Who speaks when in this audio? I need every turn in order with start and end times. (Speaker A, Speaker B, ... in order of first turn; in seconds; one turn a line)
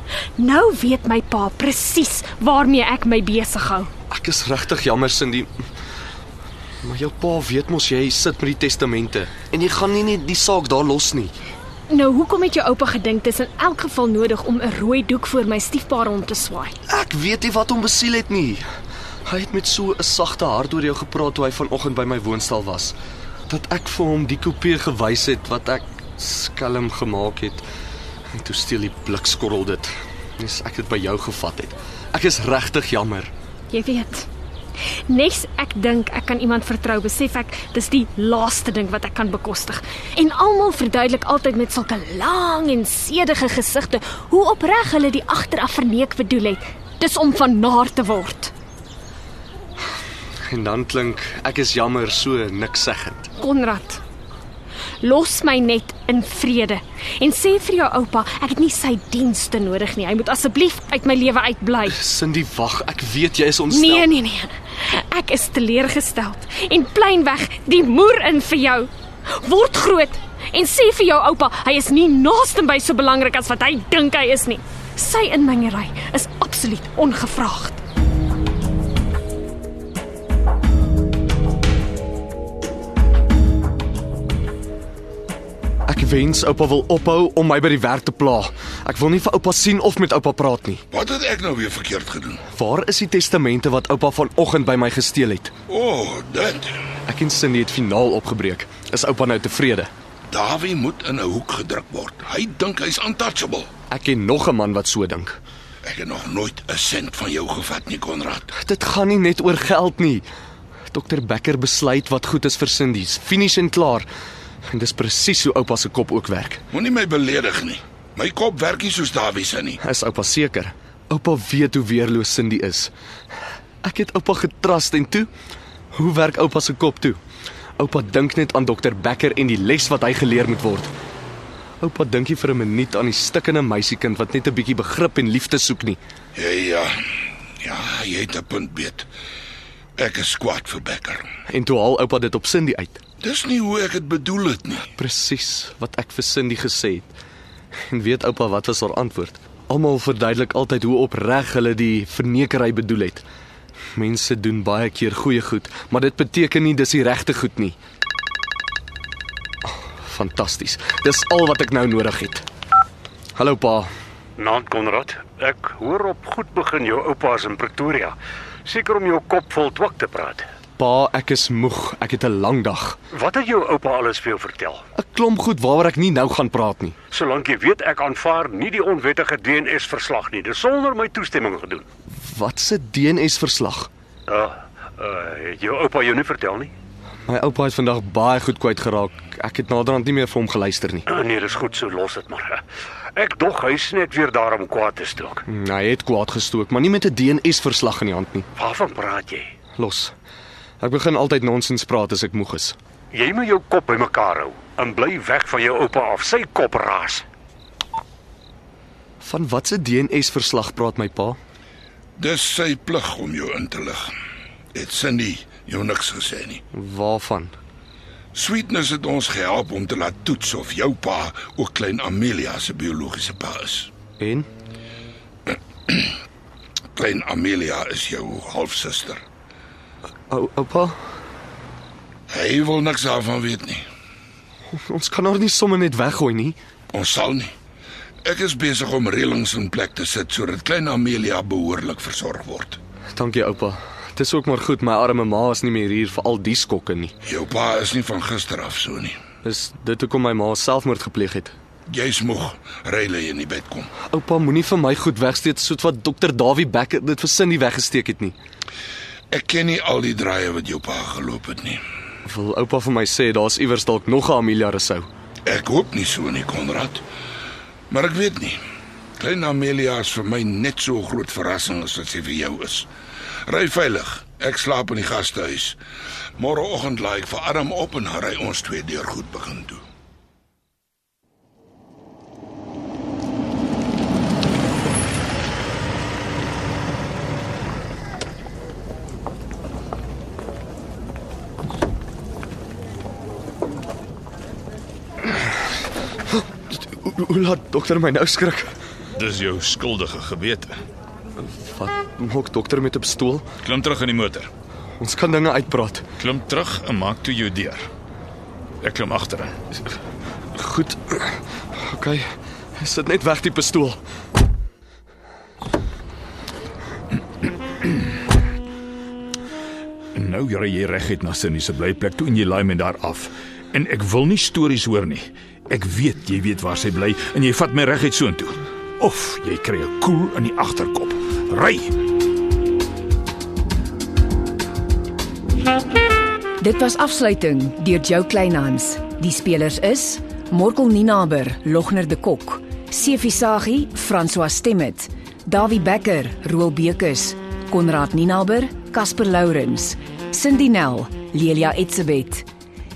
Speaker A: 0.4-3.9
Speaker B: 4.1-5.5
Speaker B: 6.8-11.3
Speaker A: 11.9-16.7
Speaker B: 16.9-18.6
Speaker B: 19.2-22.9
Speaker B: 23.5-27.6
Speaker B: 28.3-33.3
Speaker A: 33.7-34.3
Speaker A: 35.1-48.5
Speaker B: 50.5-53.3
Speaker A: 53.4-54.0
Speaker A: 55.0-62.0
Speaker B: 61.9-64.1
Speaker A: 63.7-77.8
Speaker B: 85.9-90.8
Speaker C: 90.9-92.4
Speaker B: 92.5-95.5
Speaker C: 95.7-96.7
Speaker B: 97.1-99.9
Speaker C: 100.3-103.7
Speaker B: 103.9-105.4
Speaker C: 105.8-108.5
Speaker B: 108.5-110.2
Speaker B: 110.9-114.1
Speaker B: 114.7-116.6
Speaker C: 116.7-119.8
Speaker B: 119.8-122.9
Speaker B: 123.8-125.3
Speaker B: 125.9-127.2
Speaker B: 127.8-130.9
Speaker B: 131.8-136.0
Speaker C: 136.3-136.9
Speaker C: 137.6-139.1
Speaker C: 140.0-141.2
Speaker B: 141.5-143.0
Speaker C: 143.2-144.9
Speaker B: 144.9-147.1
Speaker B: 147.9-153.2
Speaker B: 153.9-157.8
Speaker B: 160.0-162.4
Speaker B: 163.3-163.9
Speaker D: 164.4-170.5
Speaker B: 170.8-173.0
Speaker D: 173.1-174.8
Speaker B: 174.9-177.0
Speaker D: 177.1-181.8
Speaker B: 182.2-183.9
Speaker D: 184.3-186.7
Speaker B: 187.3-191.0
Speaker D: 191.1-192.6
Speaker D: 193.1-195.4
Speaker B: 195.5-198.5
Speaker D: 198.6-199.5
Speaker B: 199.8-200.1
Speaker B: 200.8-202.8
Speaker D: 203.1-207.2
Speaker B: 209.2-211.4
Speaker C: 212.2-214.1
Speaker C: 214.7-216.6
Speaker B: 216.7-217.5
Speaker C: 218.3-223.9
Speaker B: 224.2-224.5
Speaker C: 226.9-229.2
Speaker B: 230.3-230.9
Speaker C: 232.3-233.8
Speaker B: 234.7-236.6
Speaker C: 236.9-237.5
Speaker C: 238.2-242.8
Speaker B: 243.1-247.1
Speaker C: 247.2-249.2
Speaker B: 249.4-251.5
Speaker C: 251.9-253.9
Speaker B: 254.1-258.3
Speaker C: 259.3-261.8
Speaker B: 262.2-265.1
Speaker C: 265.4-267.0
Speaker C: 267.9-268.6
Speaker C: 269.2-272.9
Speaker C: 273.5-275.8
Speaker C: 276.4-279.8
Speaker B: 296.3-298.7
Speaker E: 299.2-300.7
Speaker B: 301.4-303.4
Speaker E: 303.6-304.5
Speaker B: 305.0-306.1
Speaker E: 306.2-307.8
Speaker E: 308.8-309.5
Speaker B: 310.5-312.2
Speaker B: 312.8-314.0
Speaker E: 320.1-331.9
Speaker F: 336.6-352.5